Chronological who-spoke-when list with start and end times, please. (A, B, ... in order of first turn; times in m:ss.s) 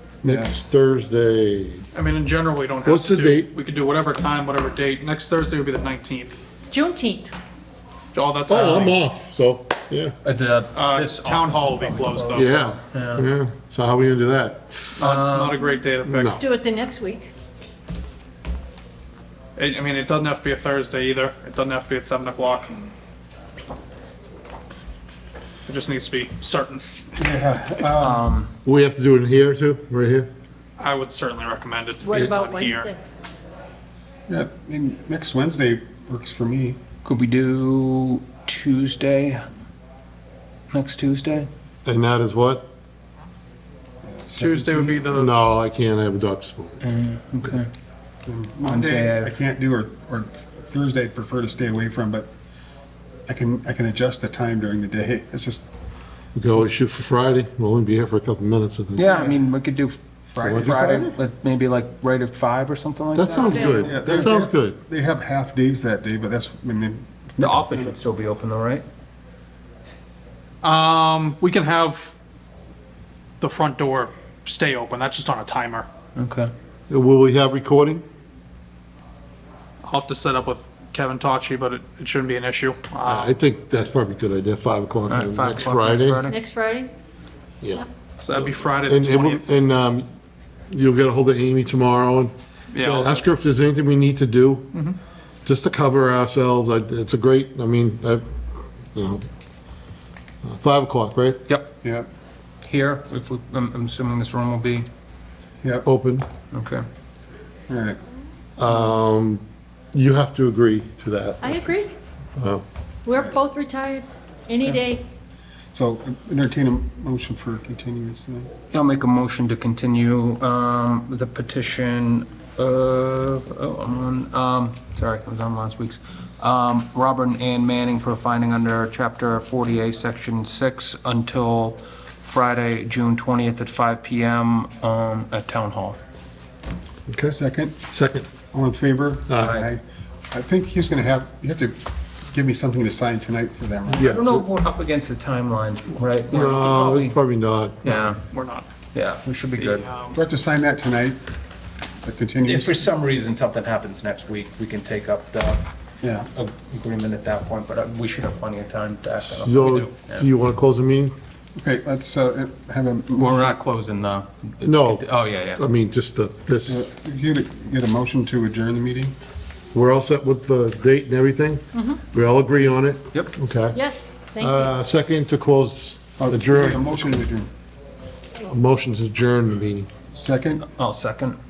0:00.2-0:00.5 A
0:00.2-0:01.8 B
0:01.9-0:06.4 C
0:02.8-0:03.5 B
0:06.7-0:07.3 D
0:08.1-0:09.0 C
0:08.5-0:10.1 B
0:10.2-0:13.3 E
0:10.7-0:12.6 C
0:12.3-0:14.8 B
0:15.0-0:16.4 C
0:15.0-0:15.6 E
0:16.0-0:16.4 B
0:16.4-0:17.3 D
0:19.6-0:22.8 C
0:25.7-0:26.8 C
0:27.2-0:28.3 A
0:28.0-0:28.5 E
0:28.6-0:30.3 B
0:30.8-0:32.9 C
0:32.0-0:33.0 D
0:34.3-0:36.8 A
0:37.0-0:39.4 E
0:40.7-0:41.5 E
0:41.8-0:42.7 B
0:44.0-0:45.0 A
0:44.4-0:45.3 C
0:45.1-0:46.8 B
0:46.8-0:47.7 E
0:48.2-0:52.3 A
0:48.6-0:49.4 E
0:53.3-0:55.6 A
0:56.3-0:59.1 B
0:59.0-1:03.8 E
0:59.0-0:59.4 A
1:00.3-1:01.2 A
1:00.4-1:01.0 B
1:03.1-1:04.8 B
1:03.4-1:04.3 D
1:03.6-1:08.0 A
1:07.4-1:08.8 E
1:10.6-1:12.1 C
1:13.4-1:15.9 C
1:16.2-1:16.5 E
1:16.9-1:18.0 B
1:19.8-1:23.3 C
1:23.0-1:26.2 B
1:25.1-1:26.4 E
1:26.2-1:26.9 D
1:27.6-1:30.1 B
1:28.2-1:29.5 C
1:30.7-1:34.7 B
1:32.7-1:33.2 C
1:35.4-1:38.2 B
1:38.9-1:39.2 B
1:40.4-1:41.4 B
1:41.8-1:42.1 A
1:42.6-1:44.9 E
1:45.8-1:46.3 B
1:46.5-1:46.8 E
1:47.7-1:48.0 A
1:48.6-1:49.4 B
1:49.9-1:51.7 B
1:51.4-1:51.9 D
1:52.4-1:52.6 B
1:53.0-1:55.0 D
1:53.1-1:53.4 A
1:55.7-1:58.5 A
1:58.7-2:16.0 E
2:17.1-2:17.4 B
2:17.3-2:17.8 A
2:17.9-2:18.3 B
2:18.5-2:21.8 A
2:19.3-2:19.6 B
2:19.4-2:19.7 E
2:22.3-2:24.1 A
2:23.9-2:27.2 E
2:23.9-2:24.5 B
2:26.3-2:28.1 B
2:27.8-2:28.2 E
2:28.3-2:28.7 C
2:28.9-2:29.9 E
2:29.6-2:30.2 C
2:30.1-2:31.2 A
2:32.0-2:32.8 A
2:32.4-2:35.6 E
2:36.0-2:36.3 A
2:36.3-2:40.3 E
2:39.3-2:41.1 B
2:41.6-2:43.6 A
2:43.2-2:45.6 E
2:44.6-2:46.8 B
2:46.7-2:49.1 A
2:49.7-2:53.8 B
2:53.7-2:54.7 D
2:54.3-2:56.9 B
2:56.2-2:57.5 A
2:58.4-2:59.9 B
3:00.1-3:00.6 A
3:00.6-3:01.4 E